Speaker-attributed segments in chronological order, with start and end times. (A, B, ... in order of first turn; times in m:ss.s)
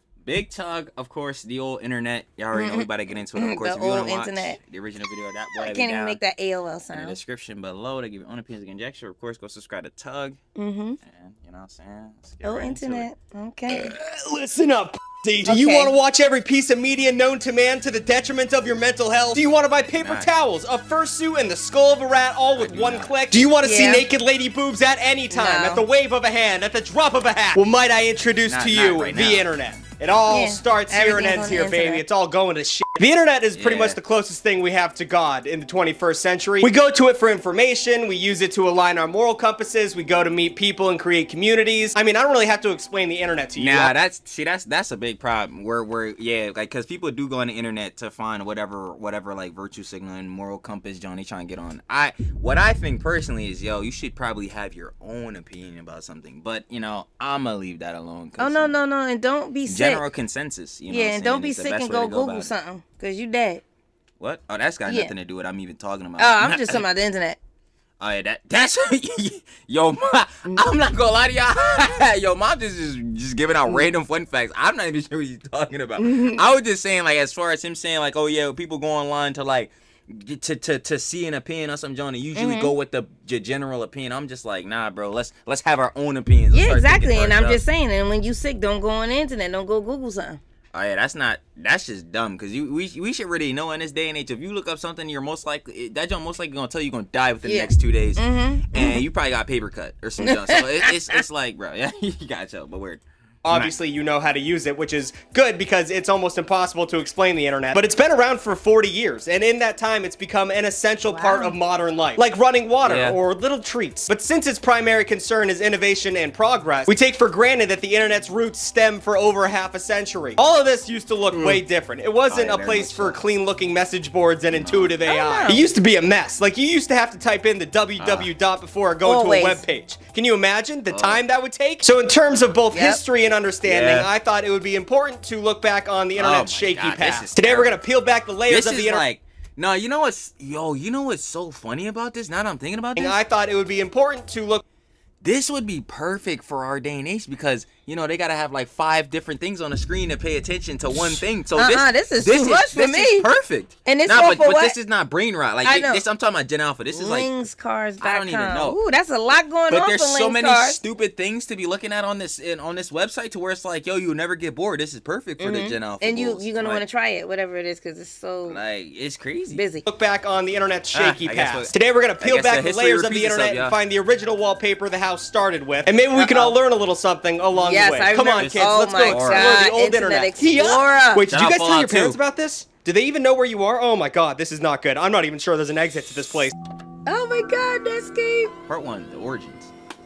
0:00.2-0:06.2 A
0:02.5-0:04.6 B
0:05.6-0:07.2 B
0:06.9-0:10.4 A
0:10.6-0:11.0 B
0:11.0-0:13.1 A
0:12.4-0:14.0 B
0:13.7-0:43.9 C
0:15.4-0:15.9 B
0:20.0-0:20.3 A
0:22.6-0:23.4 A
0:23.6-0:24.0 B
0:25.3-0:25.8 B
0:28.4-0:29.8 A
0:30.3-0:32.0 B
0:33.6-0:34.0 A
0:43.6-0:58.7 A
0:58.4-1:00.0 B
0:59.7-1:02.5 A
1:00.9-1:03.6 B
1:04.2-1:06.8 A
1:04.9-1:05.1 B
1:06.2-1:07.4 B
1:08.0-1:27.6 A
1:16.0-1:16.4 B
1:22.4-1:22.7 B
1:26.5-1:30.4 B
1:30.7-1:43.7 A
1:37.4-1:39.0 B
1:40.2-1:41.2 B
1:43.4-2:19.0 C
1:51.1-1:51.6 B
1:52.8-1:53.2 A
2:01.3-2:01.6 A
2:02.3-2:03.2 A
2:04.5-2:05.0 A
2:05.0-2:05.6 B
2:08.0-2:08.3 A
2:09.0-2:09.6 B
2:10.9-2:11.2 A
2:12.7-2:13.0 B
2:13.6-2:14.1 A
2:16.2-2:17.8 A
2:18.5-2:23.2 A
2:23.0-2:24.6 C
2:25.2-2:37.3 A
2:31.0-2:33.3 B
2:33.8-2:34.7 B
2:35.6-2:36.0 B
2:36.9-2:40.8 B
2:38.0-2:38.8 A
2:39.7-2:46.8 A
2:45.4-2:48.6 B
2:48.5-2:49.6 A
2:49.5-2:49.8 B
2:49.8-3:06.5 C
2:50.9-2:53.7 A
2:57.5-3:01.3 B
2:58.4-2:59.5 A
3:01.2-3:02.2 A
3:07.0-3:08.5 B
3:08.7-3:09.7 A